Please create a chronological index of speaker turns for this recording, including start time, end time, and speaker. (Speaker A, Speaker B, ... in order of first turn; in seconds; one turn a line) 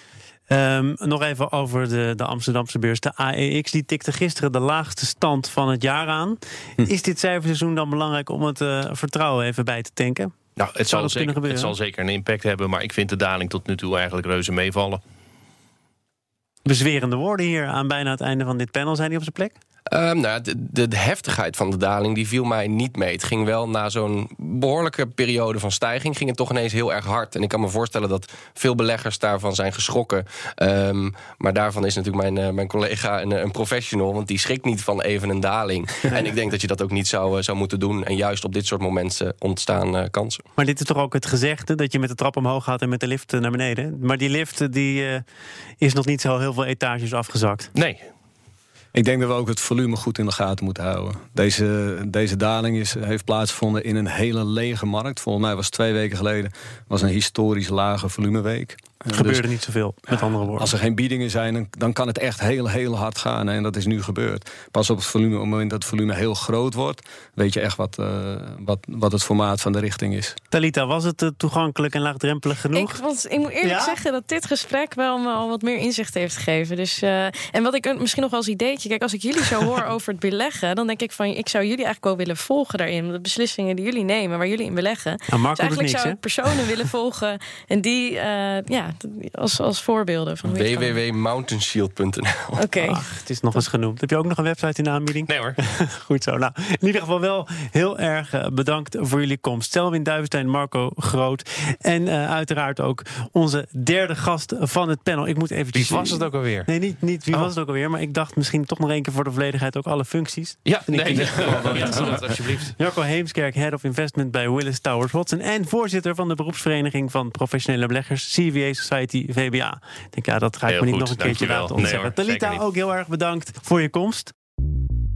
Speaker A: 0.5-10.3
Speaker B: 10.6-15.0
Speaker A: 10.8-11.7
Speaker A: 16.6-19.6
Speaker C: 19.9-40.4
Speaker A: 40.6-45.2
Speaker A: 45.8-47.7
Speaker B: 47.7-48.1
Speaker D: 48.9-59.4
Speaker A: 59.1-60.7
Speaker D: 60.1-70.4
Speaker A: 70.5-73.0
Speaker E: 72.7-90.9
Speaker A: 73.6-74.0
Speaker A: 85.3-86.2
Speaker C: 90.5-92.5
Speaker E: 92.5-93.0
Speaker A: 92.8-124.3
Speaker B: 95.3-95.6
Speaker B: 105.7-106.7
Speaker B: 110.7-112.8
Speaker B: 120.7-122.6